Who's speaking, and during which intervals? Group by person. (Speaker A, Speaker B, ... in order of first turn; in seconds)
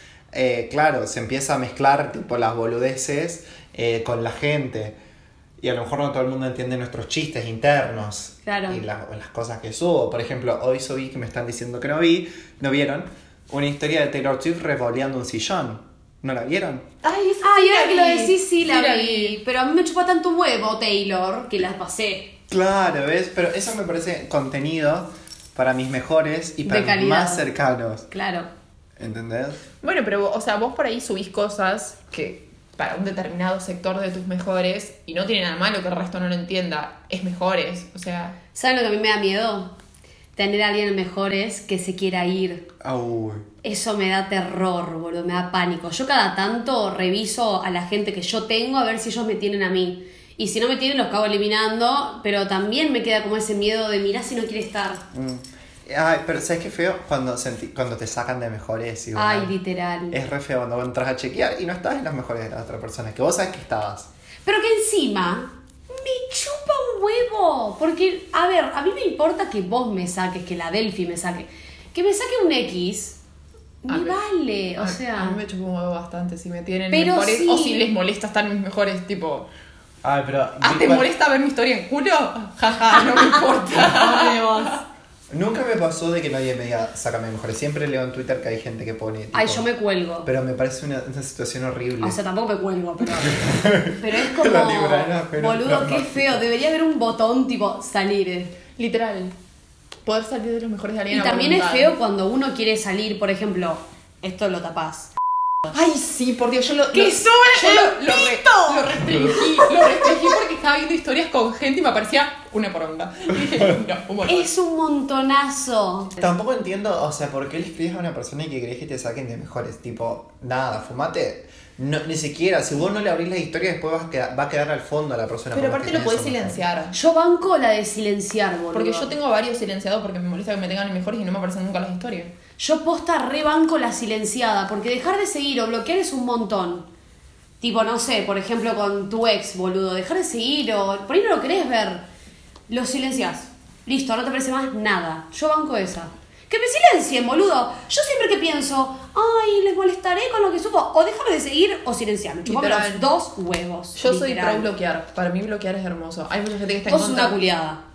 Speaker A: 0.3-5.0, 5.6-16.9, 22.5-28.1, 29.0-29.6, 42.8-43.5, 55.1-59.5, 60.1-64.1, 80.0-81.1, 85.3-89.7, 90.2-92.2, 93.2-96.5, 116.2-126.6
Speaker B: 8.4-8.8, 17.4-22.4, 26.7-27.5, 28.1-28.5, 38.5-39.8, 40.4-42.7, 43.6-55.0, 59.1-60.2, 64.5-73.2, 73.8-75.4, 76.9-77.9, 83.8-84.8, 89.3-90.3, 92.0-98.6, 101.1-105.1, 106.9-110.1, 114.3-116.2, 126.9-129.1, 132.6-136.9, 137.6-142.1, 142.7-154.7, 156.9-157.8
Speaker C: 17.0-19.4, 29.8-38.4, 73.9-74.2, 74.8-79.5, 80.6-84.8, 98.8-99.3, 100.0-101.9, 105.7-114.5, 125.5-127.0, 128.7-132.3, 152.4-153.1, 153.9-157.4